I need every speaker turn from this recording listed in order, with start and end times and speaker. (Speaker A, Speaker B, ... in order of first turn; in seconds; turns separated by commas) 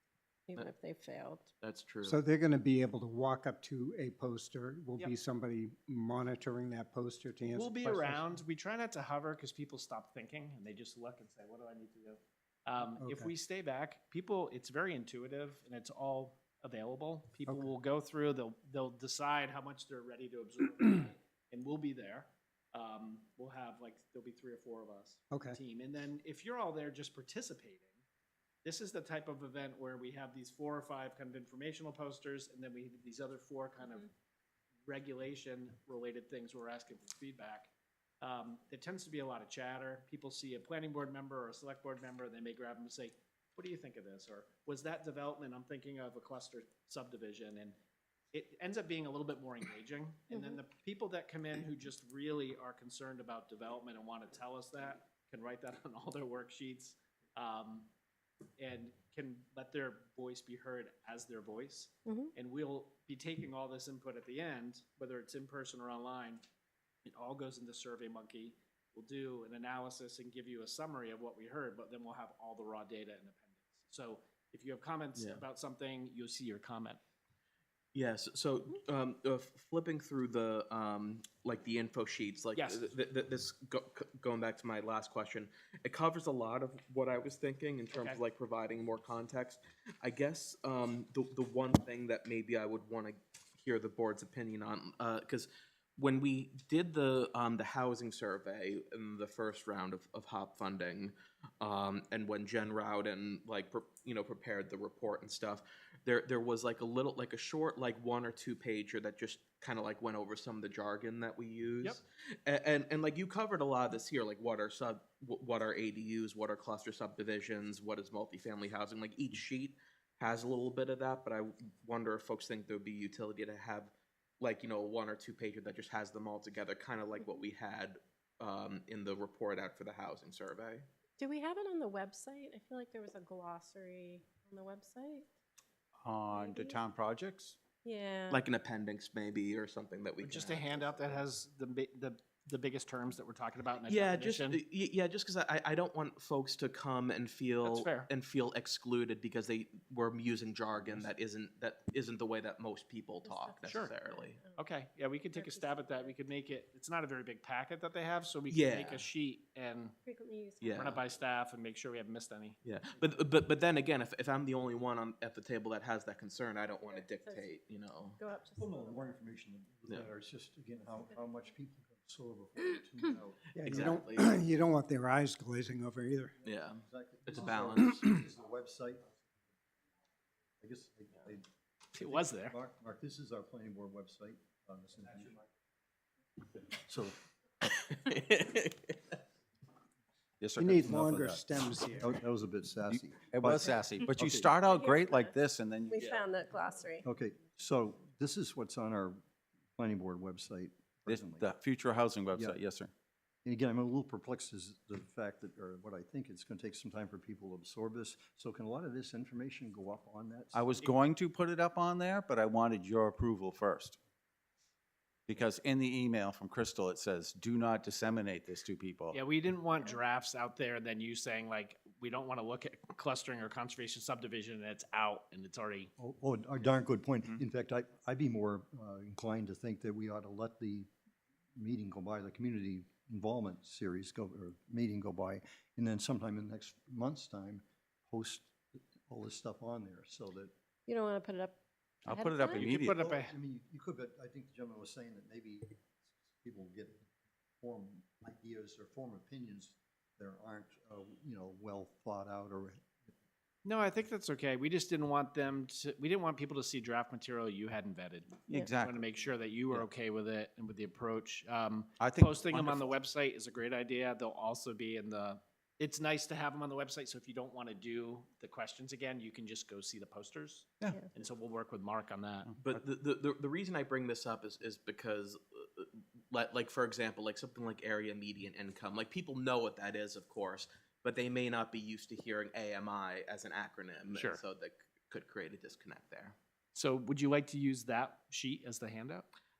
Speaker A: 0.5-1.5, Speaker B: 1.6-2.2, Speaker C: 2.0-8.3, Speaker D: 7.5-28.0, Speaker C: 12.8-13.3, Speaker C: 17.4-17.7, Speaker C: 25.3-25.6, Speaker D: 28.6-34.1, Speaker D: 34.9-47.7, Speaker D: 48.3-57.9, Speaker A: 50.3-50.6, Speaker D: 58.6-66.4, Speaker A: 62.0-62.3, Speaker D: 67.0-77.0, Speaker B: 75.2-75.4, Speaker B: 77.9-130.9, Speaker D: 82.5-82.9, Speaker D: 87.9-88.2, Speaker A: 131.2-135.3, Speaker E: 136.0-137.6, Speaker A: 136.3-136.8, Speaker A: 137.8-138.4, Speaker B: 138.3-141.2, Speaker D: 140.2-144.6, Speaker B: 143.9-154.4, Speaker D: 147.6-148.1, Speaker A: 153.2-154.6, Speaker D: 153.6-153.9, Speaker D: 154.6-159.9, Speaker A: 155.3-156.2, Speaker B: 158.5-159.0, Speaker A: 160.0-160.8, Speaker B: 160.6-161.0, Speaker D: 160.8-162.6, Speaker B: 162.6-168.2, Speaker A: 166.8-167.5, Speaker A: 168.2-169.0, Speaker F: 168.6-173.9, Speaker C: 173.5-176.3, Speaker B: 173.6-174.4, Speaker F: 176.4-179.2, Speaker B: 176.4-178.0, Speaker F: 180.6-185.4, Speaker D: 181.9-182.6, Speaker F: 186.7-187.2, Speaker B: 187.7-189.1, Speaker E: 190.4-190.8, Speaker C: 190.6-192.2, Speaker F: 190.8-194.5, Speaker E: 192.9-196.0, Speaker A: 194.6-197.1, Speaker B: 196.0-196.2, Speaker F: 197.0-199.2, Speaker F: 199.8-201.5, Speaker E: 201.1-202.9, Speaker F: 203.4-210.7, Speaker E: 210.5-214.0, Speaker E: 215.3-219.2, Speaker D: 219.1-225.9, Speaker F: 226.0-230.9, Speaker F: 231.6-240.5, Speaker A: 240.9-242.7, Speaker E: 242.0-243.0, Speaker D: 242.5-243.3, Speaker F: 242.6-247.1, Speaker F: 247.6-252.9, Speaker D: 253.6-272.5, Speaker E: 258.5-259.2, Speaker E: 262.0-262.9, Speaker B: 272.6-286.4, Speaker D: 284.1-284.4, Speaker D: 286.7-289.3